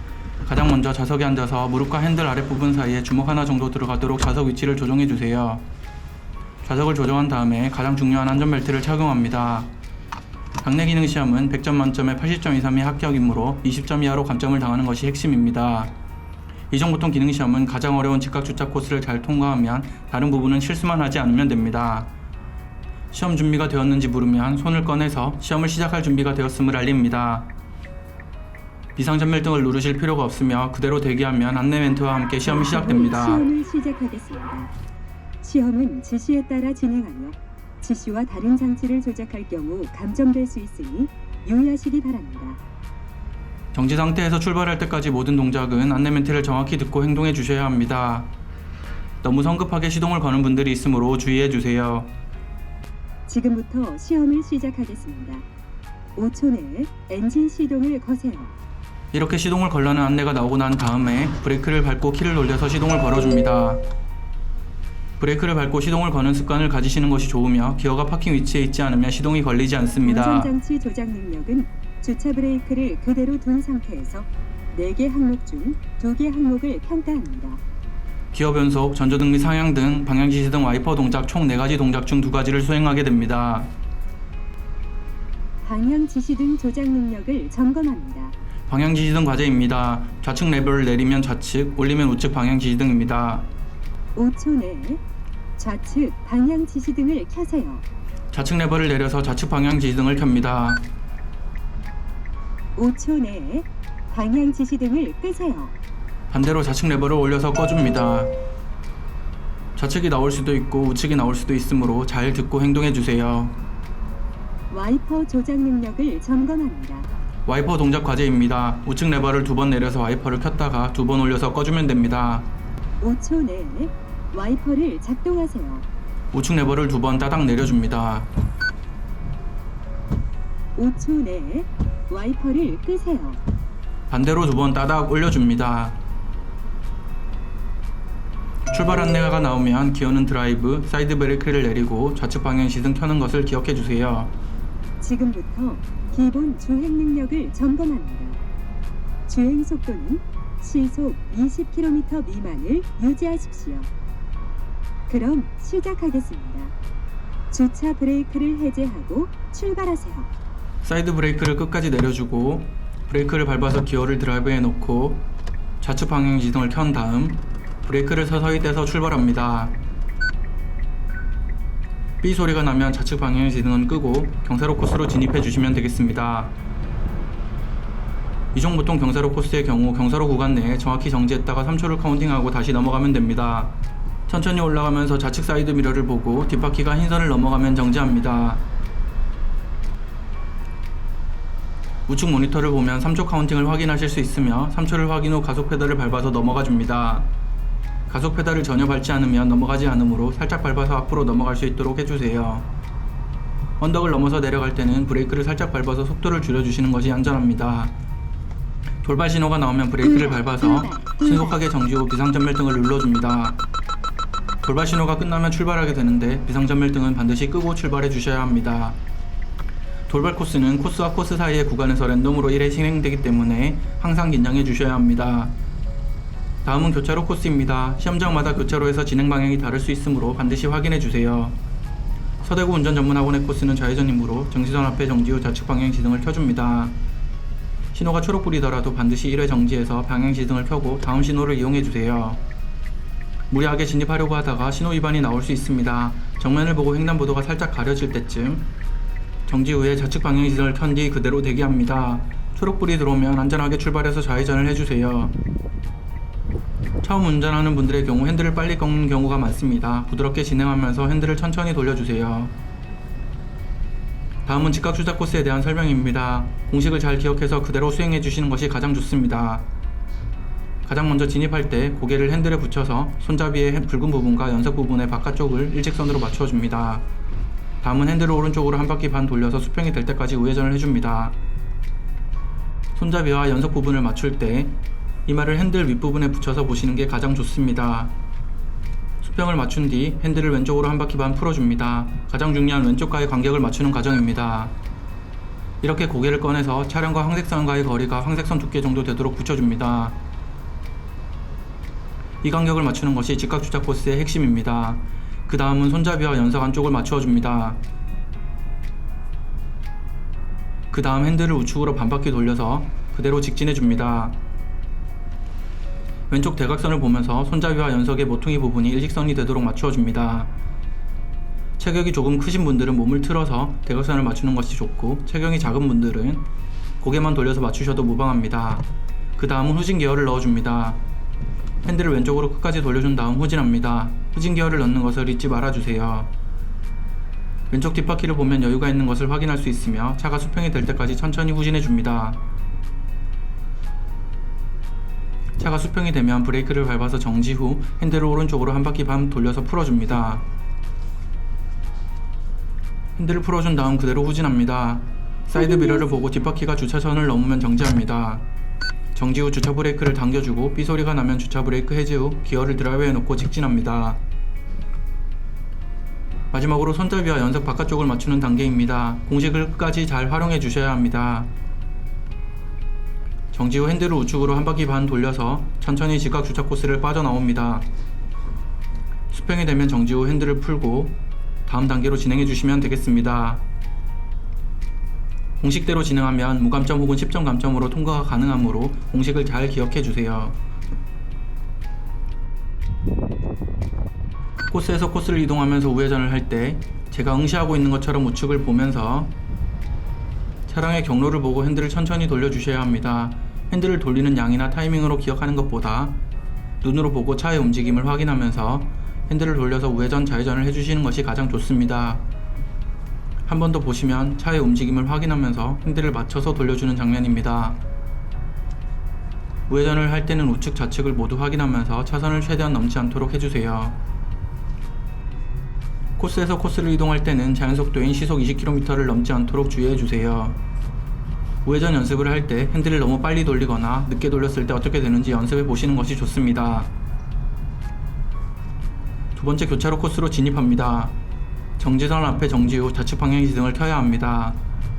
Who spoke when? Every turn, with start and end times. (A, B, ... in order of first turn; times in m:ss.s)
0:00.4-0:05.7 A
0:06.6-0:09.8 A
0:10.6-0:16.0 A
0:16.7-0:22.1 A
0:23.1-0:27.5 A
0:29.0-0:33.4 A
0:32.4-0:34.7 B
0:35.4-0:42.6 B
0:43.7-0:48.3 A
0:49.2-0:52.1 A
0:53.3-0:55.5 B
0:56.2-0:58.5 B
0:59.1-1:03.8 A
1:05.2-1:10.5 A
1:10.0-1:17.6 B
1:18.3-1:23.8 A
1:25.6-1:28.4 B
1:28.7-1:33.5 A
1:34.2-1:35.0 B
1:35.6-1:37.8 B
1:38.3-1:40.9 A
1:42.8-1:45.8 B
1:46.3-1:48.4 A
1:49.8-1:53.6 A
1:54.7-1:57.1 B
1:57.5-2:02.5 A
2:03.0-2:05.9 B
2:06.3-2:08.3 A
2:10.8-2:13.4 B
2:14.1-2:16.0 A
2:18.7-2:24.3 A
2:25.0-2:28.4 B
2:29.3-2:33.9 B
2:35.1-2:36.8 B
2:37.5-2:40.3 B
2:40.8-2:45.3 A
2:45.8-2:49.8 A
2:52.2-2:56.6 A
2:58.5-3:08.6 A
3:12.1-3:17.3 A
3:18.1-3:22.7 A
3:23.8-3:28.0 A
3:29.0-3:33.6 A
3:30.0-3:31.6 B
3:34.6-3:39.0 A
3:40.1-3:45.6 A
3:46.6-3:51.6 A
3:52.4-3:57.0 A
3:57.9-4:02.4 A
4:03.5-4:08.7 A
4:09.5-4:15.4 A
4:17.0-4:22.6 A
4:24.5-4:29.7 A
4:30.8-4:37.1 A
4:37.8-4:41.4 A
4:43.0-4:48.2 A
4:49.2-4:54.8 A
4:55.8-5:00.2 A
5:02.4-5:07.8 A
5:10.9-5:14.4 A
5:16.3-5:20.5 A
5:21.8-5:26.5 A
5:27.0-5:31.0 A
5:31.8-5:36.3 A
5:37.7-5:42.4 A
5:45.6-5:50.4 A
5:53.2-5:58.5 A
5:55.6-5:56.2 B
5:59.2-6:04.2 A
6:06.5-6:11.5 A
6:13.5-6:17.9 A
6:19.3-6:23.6 A
6:25.6-6:30.6 A
6:34.7-6:39.4 A
6:40.7-6:46.2 A
6:46.8-6:52.2 A
6:53.5-6:57.8 A
6:59.7-7:04.0 A
7:06.2-7:10.6 A
7:11.6-7:16.9 A
7:19.4-7:21.2 A
7:21.8-7:24.6 A